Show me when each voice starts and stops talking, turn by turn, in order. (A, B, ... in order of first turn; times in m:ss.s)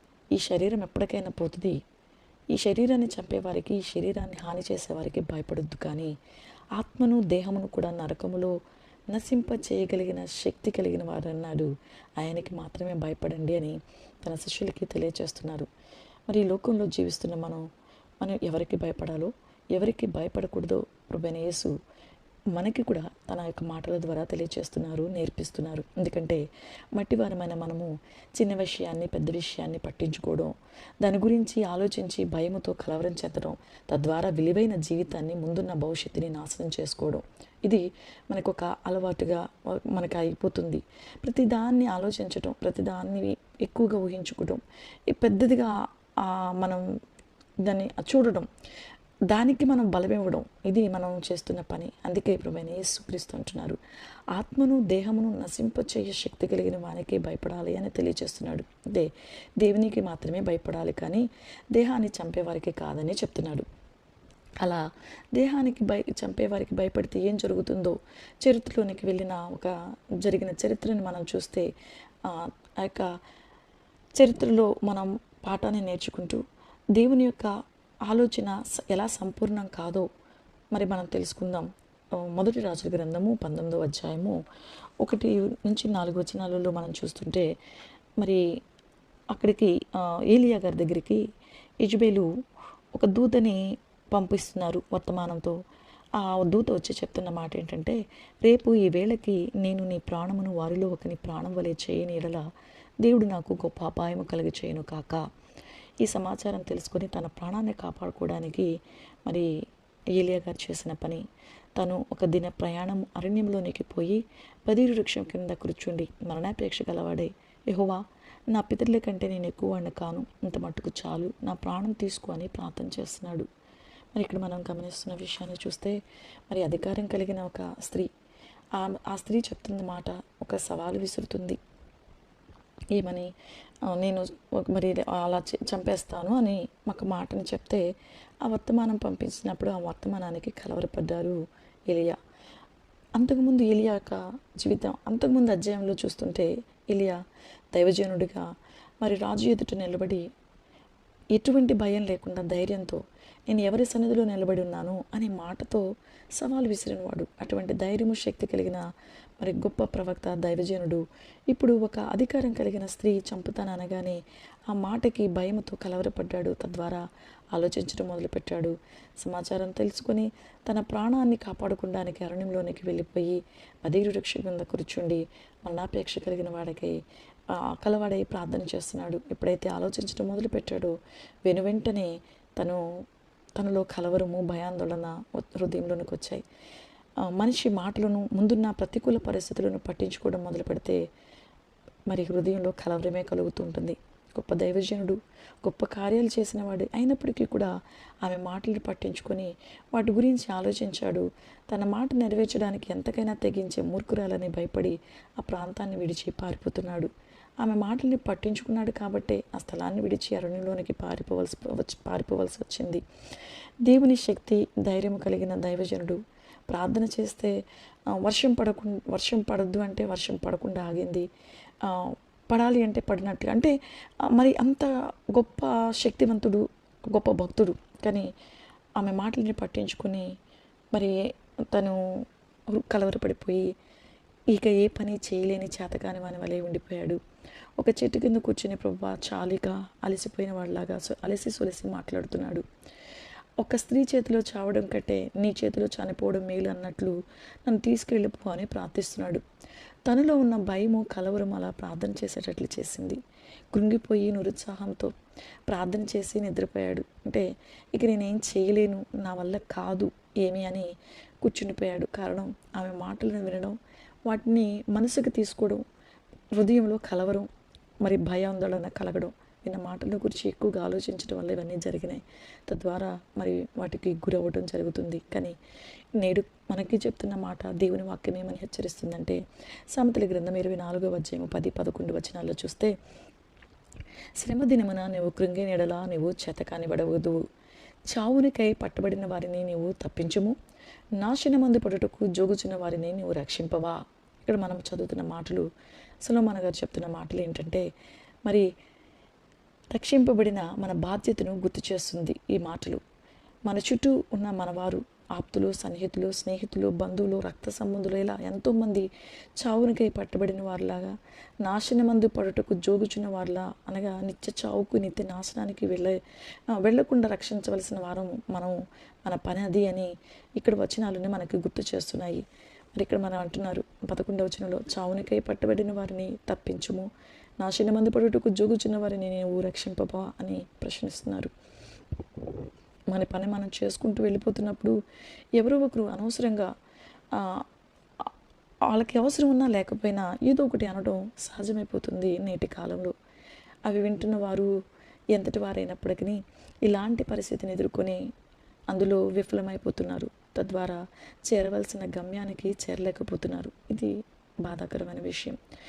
0:00.3-0:01.8 A
0:02.5-0:06.1 A
0:06.8-0:08.6 A
0:09.1-0:15.7 A
0:16.3-0:17.6 A
0:18.2-0:21.7 A
0:22.5-0:26.4 A
0:27.0-0:46.8 A
0:47.6-0:48.5 A
0:49.3-0:53.8 A
0:54.3-1:03.7 A
1:04.6-1:11.7 A
1:12.2-1:13.1 A
1:14.2-1:16.4 A
1:17.0-1:17.6 A
1:18.1-1:20.1 A
1:20.7-1:24.4 A
1:25.0-1:27.5 A
1:29.3-1:31.2 A
1:31.8-1:32.3 A
1:33.0-1:35.6 A
1:36.2-1:42.5 A
1:43.0-1:45.3 A
1:46.0-1:48.7 A
1:50.2-1:51.3 A
1:51.8-2:03.5 A
2:04.2-2:08.1 A
2:08.7-2:11.6 A
2:12.9-2:13.3 A
2:13.9-2:17.9 A
2:18.4-2:22.2 A
2:23.2-2:27.2 A
2:27.7-2:28.4 A
2:29.0-2:30.2 A
2:31.4-2:38.9 A
2:39.4-2:57.0 A
2:57.5-3:02.9 A
3:03.6-3:06.4 A
3:07.2-3:11.0 A
3:12.1-3:17.7 A
3:18.2-3:27.1 A
3:27.6-3:33.0 A
3:33.8-3:41.3 A
3:41.8-3:48.3 A
3:49.0-3:50.3 A
3:50.9-3:52.0 A
3:52.7-3:53.7 A
3:54.5-3:57.2 A
3:57.8-4:02.6 A
4:03.6-4:09.4 A
4:10.1-4:13.2 A
4:13.7-4:15.1 A
4:15.7-4:20.9 A
4:21.4-4:25.8 A
4:26.5-4:27.5 A
4:28.0-4:35.6 A
4:36.2-4:43.0 A
4:44.4-4:47.4 A
4:48.1-4:50.6 A
4:51.2-4:55.7 A
4:56.2-4:57.9 A
4:59.9-5:03.0 A
5:03.7-5:09.1 A
5:09.6-5:16.2 A
5:16.7-5:22.4 A
5:23.0-5:27.1 A
5:27.6-5:31.5 A
5:33.1-5:35.0 A
5:35.6-5:36.7 A
5:37.3-5:37.7 A
5:38.9-5:43.1 A
5:43.9-5:44.7 A
5:45.3-5:48.2 A
5:48.9-5:55.6 A